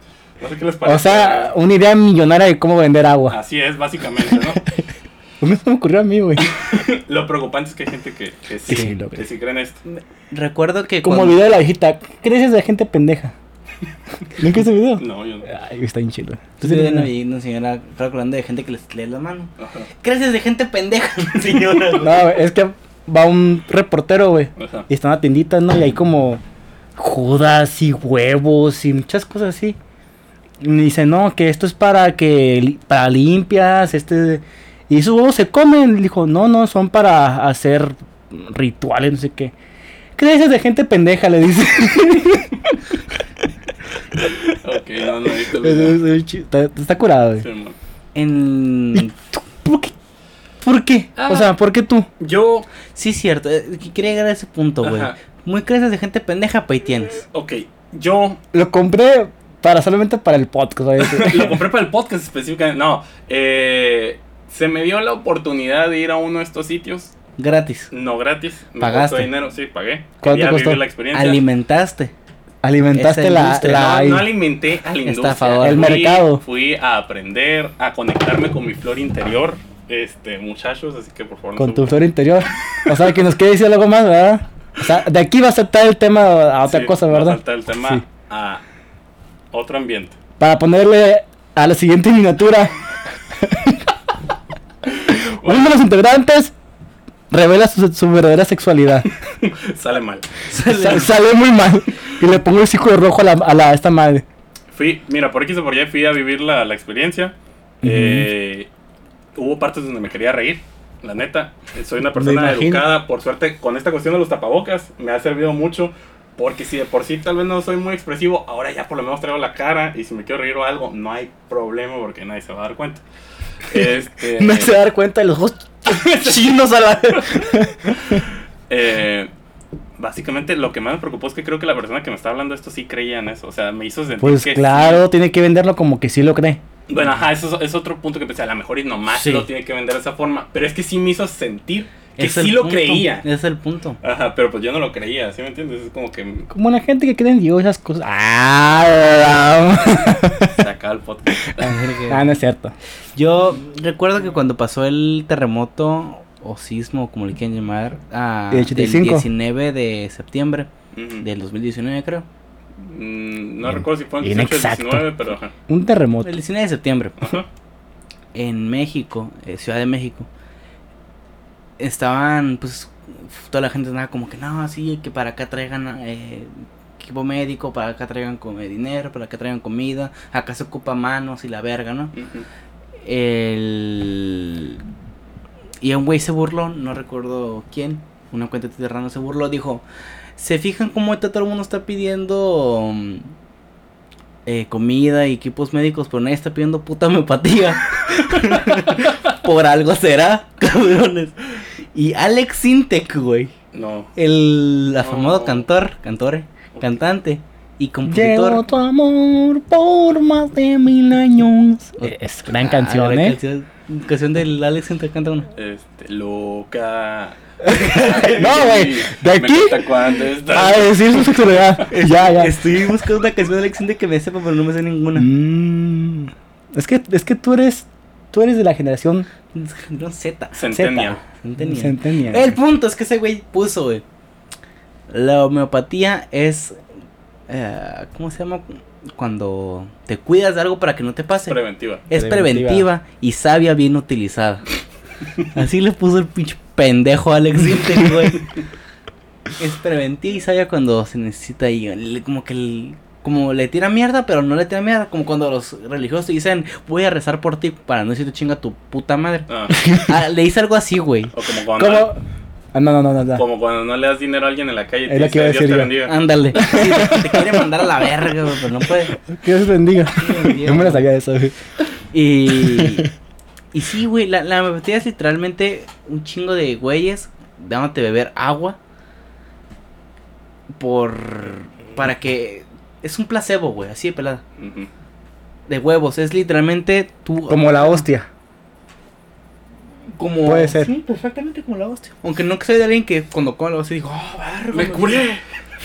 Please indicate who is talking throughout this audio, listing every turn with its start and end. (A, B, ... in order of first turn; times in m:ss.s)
0:00.4-0:01.5 A
0:00.8-0:03.4 B
0:03.3-0:04.6 A
0:05.4-0:06.5 B
0:06.4-0:09.8 A
0:08.7-0:09.2 B
0:09.8-0:11.4 C
0:11.0-0:13.3 B
0:14.4-0:17.1 B
0:14.9-0:15.5 A
0:16.6-0:22.2 C
0:19.6-0:19.9 A
0:22.0-0:26.4 B
0:24.6-0:24.9 A
0:27.0-0:29.8 B
0:30.6-0:39.5 B
0:40.2-0:42.6 B
0:44.5-0:46.0 A
0:45.5-0:47.4 B
0:47.4-0:47.8 A
0:48.1-0:49.1 C
0:49.6-0:49.9 B
0:50.6-0:52.1 B
0:51.2-0:51.5 A
0:52.2-0:52.7 A
0:52.9-0:57.2 C
0:54.8-0:55.1 A
0:57.3-0:58.4 A
0:58.5-1:01.6 B
1:01.0-1:07.1 A
1:07.4-1:07.9 C
1:07.9-1:11.4 A
1:08.8-1:09.3 C
1:10.2-1:10.8 B
1:11.1-1:12.1 C
1:12.6-1:14.3 B
1:12.9-1:13.9 C
1:13.6-1:21.9 A
1:15.0-1:16.0 C
1:15.6-1:16.4 B
1:21.6-1:28.0 B
1:26.6-1:28.6 A
1:29.5-1:30.1 A
1:30.4-1:32.8 B
1:33.3-1:33.9 B
1:35.1-1:35.7 A
1:35.1-1:36.5 B
1:37.3-1:39.1 B
1:39.4-1:40.3 A
1:40.5-1:41.1 C
1:40.6-1:44.2 B
1:44.7-1:48.7 A
1:47.8-1:48.3 B
1:49.4-2:03.0 A
1:52.1-1:52.9 B
2:03.7-2:04.7 A
2:04.3-2:08.2 B
2:05.9-2:06.4 A
2:07.1-2:07.5 A
2:08.0-2:09.3 A
2:10.0-2:15.0 A
2:14.2-2:16.6 B
2:16.9-2:23.2 A
2:19.1-2:19.4 C
2:22.2-2:24.0 C
2:24.0-2:26.5 A
2:26.5-2:30.6 B
2:30.4-2:31.6 A
2:31.6-2:32.2 C
2:32.1-2:32.7 B
2:33.1-2:40.7 C
2:38.5-2:39.2 B
2:40.9-2:41.2 A
2:41.2-2:42.2 C
2:42.8-2:45.5 A
2:43.7-2:45.1 B
2:45.7-2:46.3 B
2:46.2-2:47.3 C
2:47.2-2:47.5 A
2:48.3-2:50.3 C
2:51.8-3:02.1 C
3:02.1-3:02.4 A
3:03.0-3:04.8 C
3:05.8-3:09.8 C
3:10.4-3:13.3 C
3:14.4-3:21.4 C
3:21.9-3:23.5 C
3:23.7-3:24.1 A
3:24.2-3:28.6 C
3:25.0-3:25.7 A
3:28.0-3:33.4 B
3:32.0-3:35.5 C
3:35.5-3:41.3 A
3:37.6-3:39.9 B
3:40.5-3:42.6 B
3:41.8-3:45.3 C
3:45.2-3:49.3 B
3:49.5-3:54.0 C
3:50.6-3:51.2 A
3:50.7-3:52.6 B
3:55.1-3:56.8 C
3:57.5-4:04.6 C
4:01.5-4:02.0 A
4:02.1-4:02.9 B
4:05.5-4:08.5 C
4:09.6-4:21.3 C
4:19.5-4:19.8 A
4:19.7-4:20.1 B
4:21.3-4:22.1 A
4:21.8-4:22.2 B
4:22.7-4:23.4 B
4:23.3-4:26.1 A
4:25.1-4:25.9 B
4:26.0-4:29.2 C
4:26.5-4:27.7 B
4:29.3-4:31.5 B
4:30.1-4:31.0 C
4:32.1-4:33.1 C
4:32.5-4:33.0 B
4:33.7-4:38.8 C
4:40.7-4:44.4 C
4:44.6-4:44.9 A
4:45.7-4:48.0 C
4:47.5-4:48.3 B
4:50.1-4:55.4 C
4:50.4-4:50.9 B
4:54.7-4:55.4 A